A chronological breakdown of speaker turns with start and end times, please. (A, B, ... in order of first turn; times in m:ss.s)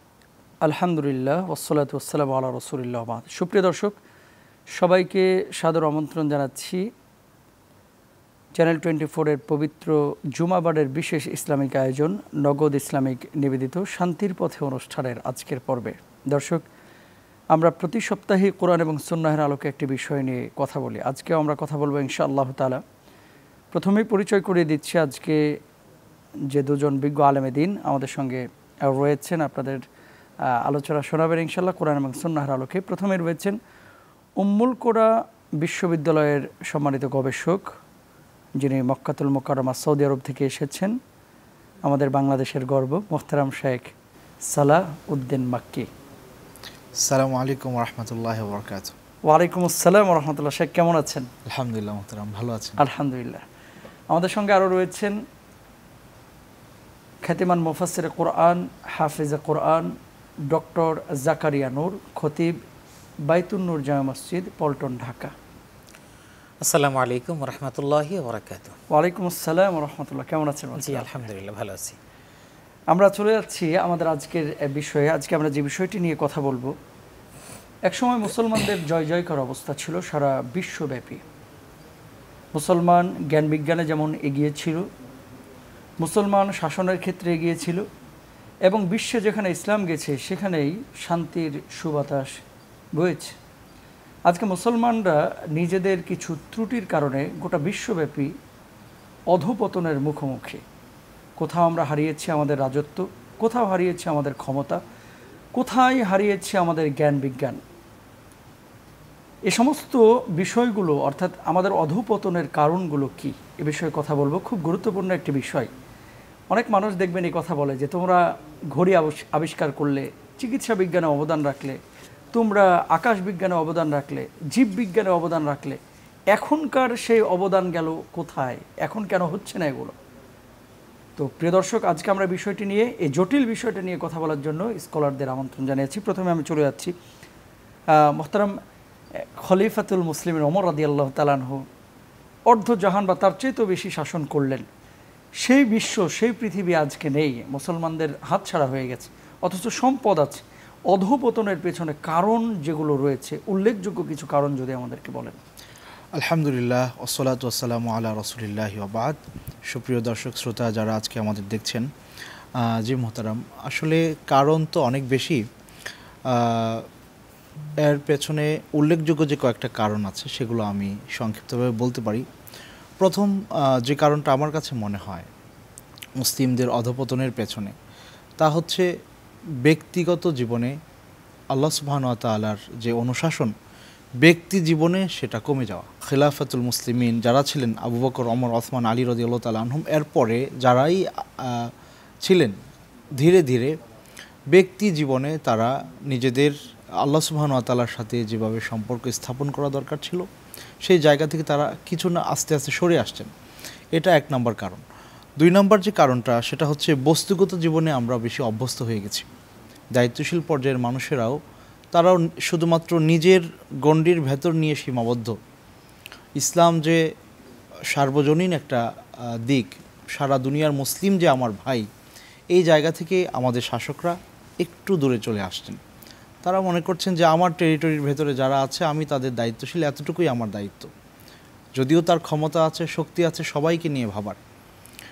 0:00.6-0:03.9 A
0:04.7-0:06.8 A
0:08.5-0:16.6 A
0:17.5-0:22.8 A
0:23.7-0:25.4 A
0:26.5-0:29.8 A
0:30.6-0:33.6 A
0:34.4-0:37.7 A
0:38.6-0:40.9 A
0:41.8-0:43.9 A
0:44.5-0:45.9 A
0:47.0-0:48.9 B
0:49.3-0:51.3 A
0:51.4-0:52.8 B
0:52.8-0:53.4 A
0:54.1-0:55.1 A
0:57.2-0:59.9 A
1:00.5-1:02.6 A
1:03.3-1:05.3 A
1:06.6-1:08.8 C
1:08.9-1:11.1 A
1:10.8-1:12.0 C
1:12.9-1:16.7 A
1:17.9-1:21.2 A
1:22.5-1:24.9 A
1:26.0-1:27.8 A
1:28.6-1:32.4 A
1:33.0-1:33.3 A
1:34.3-1:38.3 A
1:39.3-1:40.6 A
1:41.4-1:44.8 A
1:45.5-1:47.6 A
1:49.5-1:55.7 A
1:56.5-1:58.2 A
1:58.7-2:01.8 A
2:02.3-2:05.8 A
2:06.3-2:09.9 A
2:11.2-2:16.9 A
2:17.9-2:18.5 A
2:19.4-2:21.6 A
2:22.5-2:24.6 A
2:25.4-2:35.4 A
2:36.2-2:39.2 B
2:39.7-2:41.8 B
2:42.6-2:45.4 B
2:46.3-2:46.8 B
2:47.8-2:52.2 B
2:53.0-2:55.3 B
2:56.2-2:57.7 B
2:58.4-2:58.9 B
2:59.6-3:00.8 B
3:01.5-3:03.5 B
3:04.2-3:11.7 B
3:12.2-3:12.5 B
3:13.2-3:13.7 B
3:14.5-3:20.2 B
3:20.8-3:23.3 B
3:23.9-3:24.8 B
3:25.4-3:29.3 B
3:29.9-3:31.4 B
3:31.9-3:35.3 B
3:36.4-3:37.0 B
3:37.9-3:38.8 B
3:39.4-3:41.8 B
3:42.5-3:45.8 B
3:46.4-3:50.9 B
3:51.8-3:54.4 B